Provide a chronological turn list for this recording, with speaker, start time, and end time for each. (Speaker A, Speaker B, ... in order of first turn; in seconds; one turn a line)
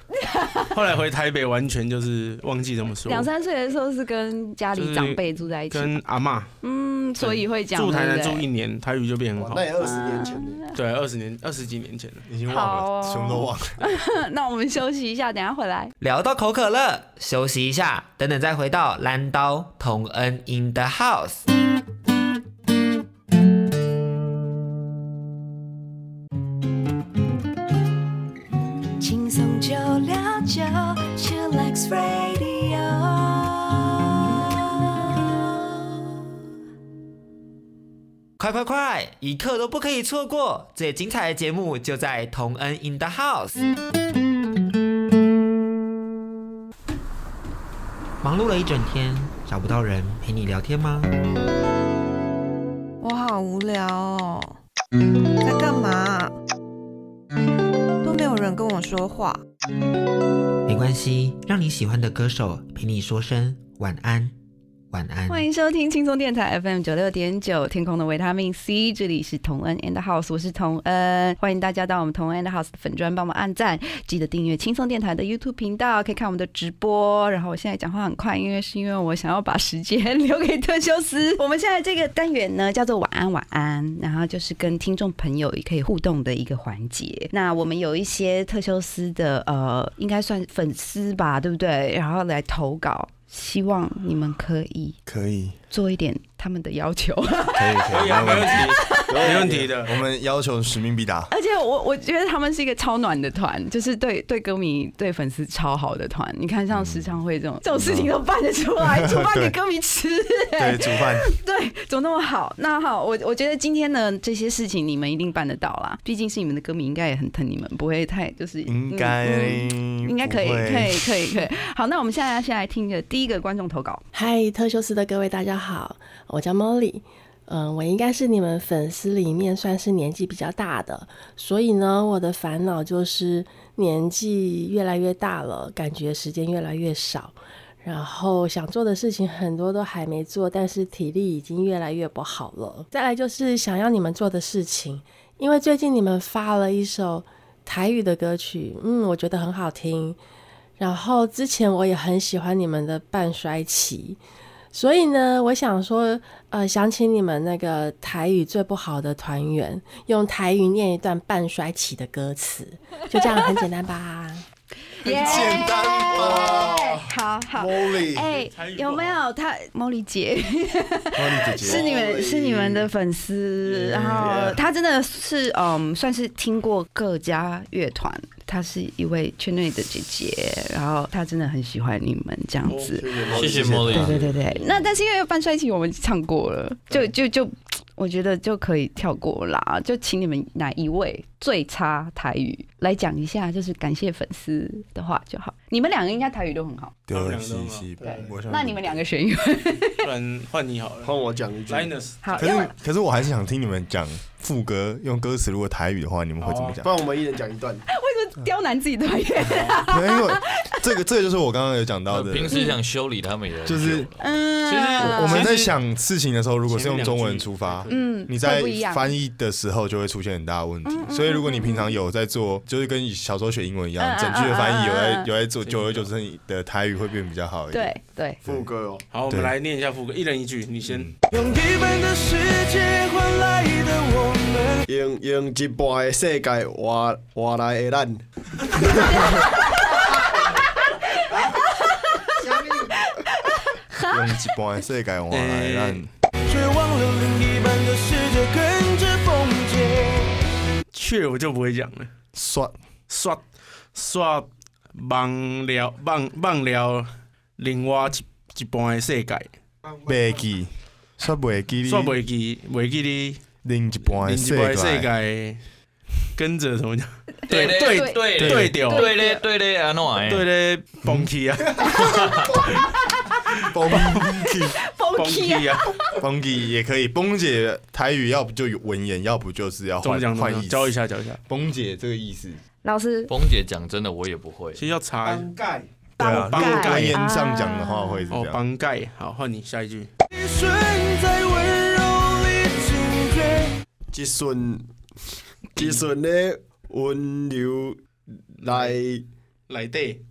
Speaker A: 0.3-0.6
Speaker B: 0.7-3.3
Speaker A: 3.0-6.0
Speaker B: 4.7-6.5
Speaker A: 6.6-8.4
Speaker B: 7.2-9.7
Speaker C: 9.3-10.6
Speaker A: 9.8-10.6
Speaker B: 10.7-12.2
Speaker D: 12.3-13.8
Speaker A: 12.5-15.9
Speaker E: 16.0-21.4
Speaker F: 29.0-36.1
Speaker E: 38.4-43.6
Speaker E: 48.2-51.1
Speaker G: 53.0-54.6
Speaker G: 55.4-56.4
Speaker G: 58.0-59.4
Speaker E: 60.6-64.3
Speaker E: 64.9-65.5
Speaker A: 65.3-95.0
Speaker D: 95.0-95.6
Speaker A: 95.7-99.0
Speaker D: 97.5-98.6
Speaker B: 97.9-100.0
Speaker C: 99.1-99.7
Speaker D: 99.8-101.3
Speaker A: 101.3-124.0
Speaker D: 106.7-108.1
Speaker D: 108.8-109.6
Speaker D: 110.6-111.3
Speaker D: 118.7-121.2
Speaker H: 124.1-150.2
Speaker H: 150.8-154.2
Speaker H: 154.7-164.4
Speaker A: 165.0-196.9
Speaker D: 165.1-166.8
Speaker C: 166.1-168.3
Speaker B: 168.3-169.2
Speaker D: 171.2-171.8
Speaker C: 171.6-172.9
Speaker C: 173.6-174.6
Speaker B: 182.7-183.0
Speaker C: 182.9-184.2
Speaker I: 183.3-184.9
Speaker D: 197.1-199.0
Speaker B: 197.1-198.3
Speaker C: 198.0-198.3
Speaker A: 198.5-200.0
Speaker B: 200.0-201.1
Speaker C: 201.0-201.9
Speaker B: 201.7-202.6
Speaker A: 202.2-202.7
Speaker D: 202.3-206.9
Speaker B: 206.4-206.8
Speaker C: 206.8-207.8
Speaker A: 207.9-210.4
Speaker B: 209.4-209.8
Speaker D: 209.9-212.6
Speaker I: 212.1-215.3
Speaker A: 212.5-212.8
Speaker D: 213.6-214.1
Speaker A: 214.2-215.6
Speaker B: 214.8-215.7
Speaker D: 215.0-228.7
Speaker B: 216.7-218.0
Speaker A: 217.9-219.1
Speaker A: 220.8-222.0
Speaker A: 224.0-225.3
Speaker B: 225.6-226.1
Speaker A: 227.7-228.4
Speaker C: 228.4-229.0
Speaker B: 229.1-231.1
Speaker D: 229.3-229.5
Speaker D: 230.8-231.2
Speaker J: 231.3-234.8
Speaker C: 234.9-238.2
Speaker C: 238.8-239.2
Speaker A: 241.5-242.3
Speaker A: 243.5-244.1
Speaker D: 244.0-246.1
Speaker B: 245.3-246.1
Speaker J: 246.5-250.4
Speaker B: 250.9-252.1
Speaker D: 252.3-252.7
Speaker B: 253.1-253.4
Speaker B: 253.9-259.5
Speaker D: 260.0-262.2
Speaker B: 261.9-263.4
Speaker D: 263.6-265.1
Speaker B: 264.0-265.6
Speaker B: 266.4-269.2
Speaker I: 267.5-270.5
Speaker A: 267.6-269.4
Speaker D: 268.4-268.7
Speaker B: 270.2-271.9
Speaker I: 272.0-272.6
Speaker D: 273.7-274.8
Speaker B: 273.9-274.2
Speaker A: 274.8-275.9
Speaker B: 275.1-275.9
Speaker D: 276.1-280.9
Speaker B: 280.0-281.4
Speaker D: 281.5-282.6
Speaker A: 282.8-283.3
Speaker I: 283.3-284.8
Speaker B: 284.7-287.2
Speaker A: 286.2-288.3
Speaker D: 286.2-288.6
Speaker B: 288.3-290.1
Speaker J: 290.3-293.7
Speaker C: 294.1-294.9
Speaker C: 295.8-298.0
Speaker B: 298.6-299.0
Speaker C: 298.6-299.2
Speaker B: 299.7-300.2